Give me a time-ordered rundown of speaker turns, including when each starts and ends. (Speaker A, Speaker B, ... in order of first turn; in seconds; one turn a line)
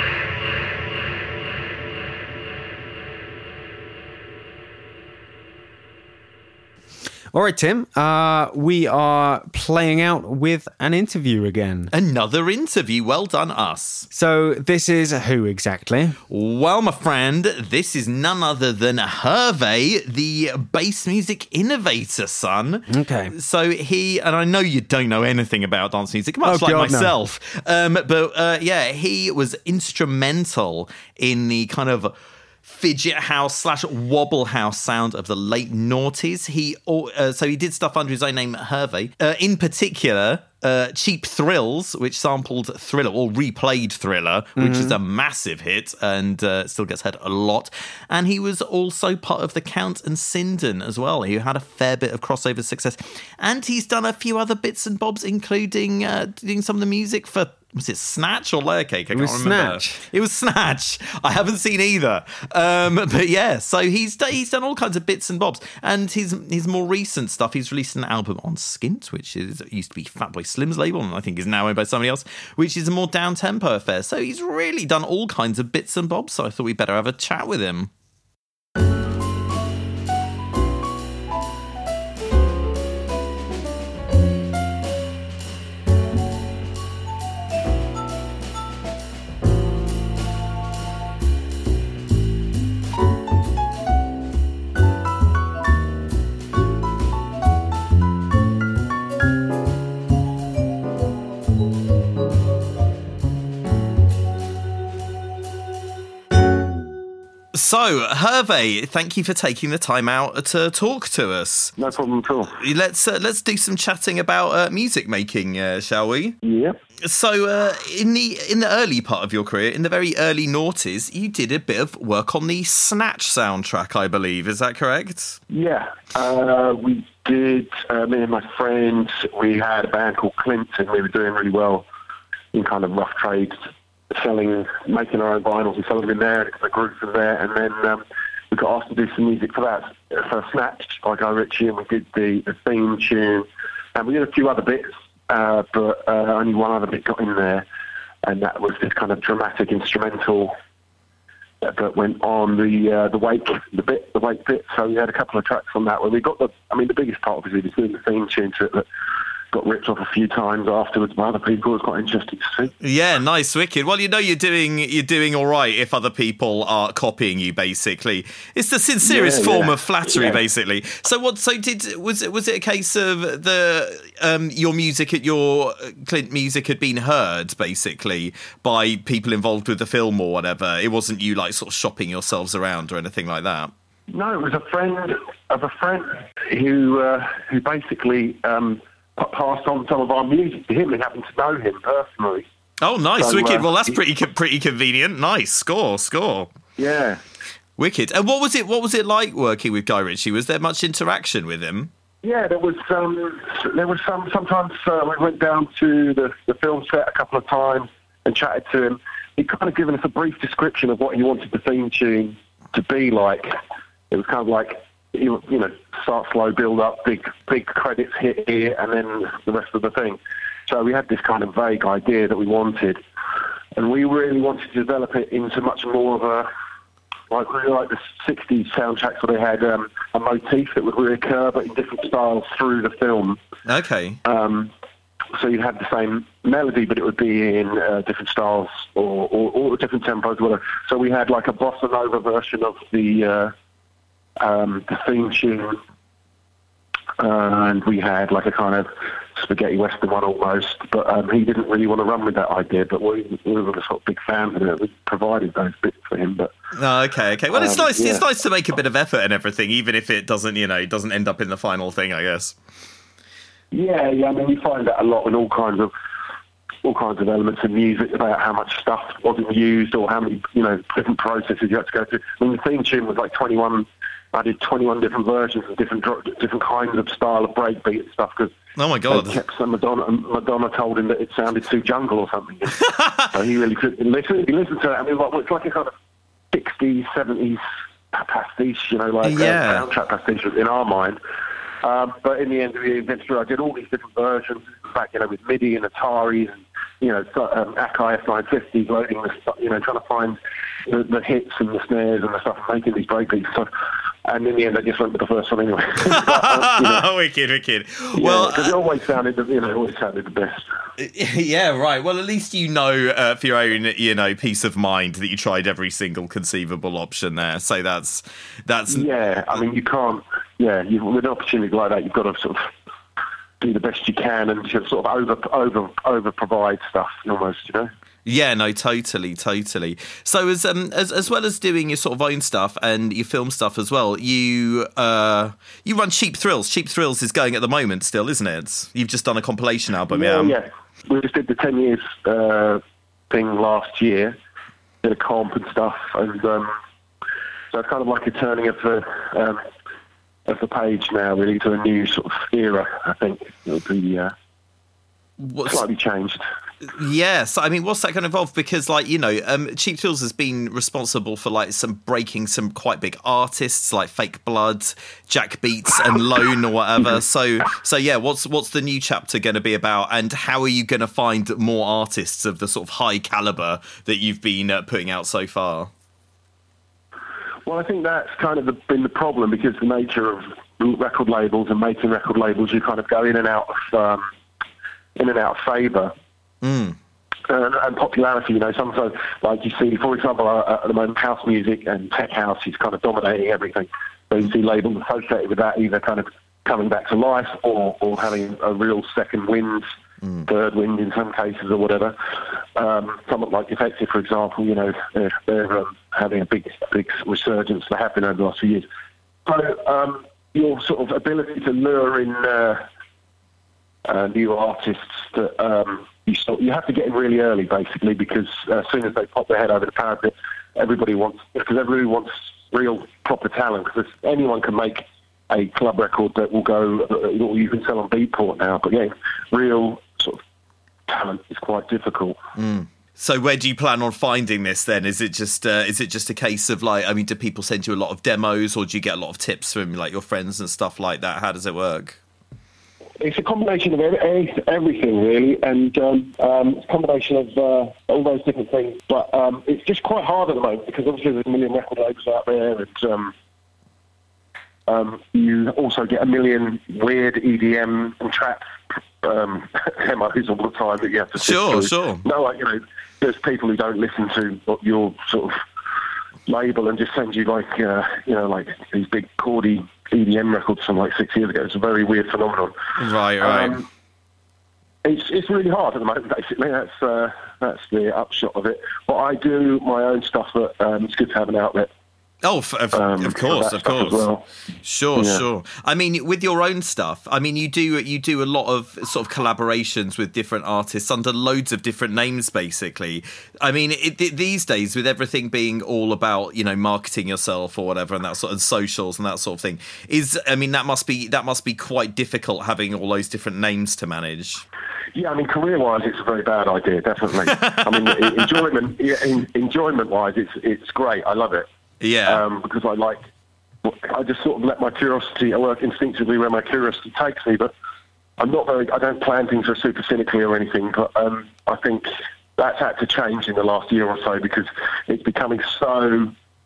Speaker A: 7.3-11.9
Speaker B: 11.9-14.1
Speaker A: 14.1-16.2
Speaker B: 16.3-77.9
Speaker A: 22.9-23.3
Speaker A: 26.4-27.1
Speaker A: 44.6-45.0
Speaker A: 59.1-60.0
Speaker B: 107.5-111.7
Speaker C: 111.8-112.5
Speaker B: 112.5-116.4
Speaker C: 116.4-116.8
Speaker B: 117.0-125.4
Speaker C: 125.5-131.8
Speaker C: 132.5-133.6
Speaker C: 134.1-147.7
Speaker C: 148.2-150.5
Speaker C: 151.6-158.8
Speaker C: 159.5-162.7
Speaker B: 162.8-183.7
Speaker C: 169.0-170.4
Speaker C: 184.1-192.5
Speaker B: 192.8-196.5
Speaker C: 193.2-194.0
Speaker C: 196.8-197.2
Speaker B: 197.8-201.9
Speaker C: 202.2-213.6
Speaker C: 214.1-223.0
Speaker C: 223.7-226.5
Speaker C: 227.3-233.4
Speaker B: 233.7-234.2
Speaker C: 234.2-234.7
Speaker C: 235.3-243.5
Speaker C: 244.4-245.8
Speaker C: 247.2-256.5
Speaker B: 256.7-262.5
Speaker C: 257.5-258.2
Speaker C: 263.7-265.9
Speaker C: 266.8-278.5
Speaker B: 278.8-279.4
Speaker C: 279.1-285.9
Speaker C: 286.5-291.2
Speaker B: 289.2-289.8
Speaker C: 291.8-303.7
Speaker C: 304.2-307.0
Speaker B: 306.1-308.7
Speaker C: 308.1-310.6
Speaker B: 311.0-319.1
Speaker C: 318.9-322.7
Speaker C: 323.6-327.9
Speaker B: 328.2-340.6
Speaker C: 340.1-344.4
Speaker C: 345.0-346.7
Speaker C: 347.7-349.6
Speaker C: 350.5-354.3
Speaker B: 355.4-355.8
Speaker C: 355.6-356.4
Speaker B: 356.8-375.9
Speaker C: 377.6-384.2
Speaker C: 385.1-386.1
Speaker B: 386.6-387.0
Speaker C: 387.5-399.9
Speaker C: 400.5-408.9
Speaker C: 409.4-412.9
Speaker C: 414.0-430.4
Speaker C: 431.1-432.4
Speaker B: 432.6-442.2
Speaker C: 443.2-453.3
Speaker C: 454.9-465.6
Speaker B: 461.4-462.2
Speaker C: 466.4-472.8
Speaker B: 473.0-473.8
Speaker C: 473.4-473.9
Speaker C: 475.0-481.9
Speaker B: 482.4-484.2
Speaker C: 482.9-484.4
Speaker B: 484.8-504.6
Speaker C: 485.1-485.4
Speaker C: 505.1-511.7
Speaker B: 507.5-508.6
Speaker B: 512.0-512.4
Speaker C: 512.2-513.2
Speaker C: 513.8-517.7
Speaker C: 518.4-526.3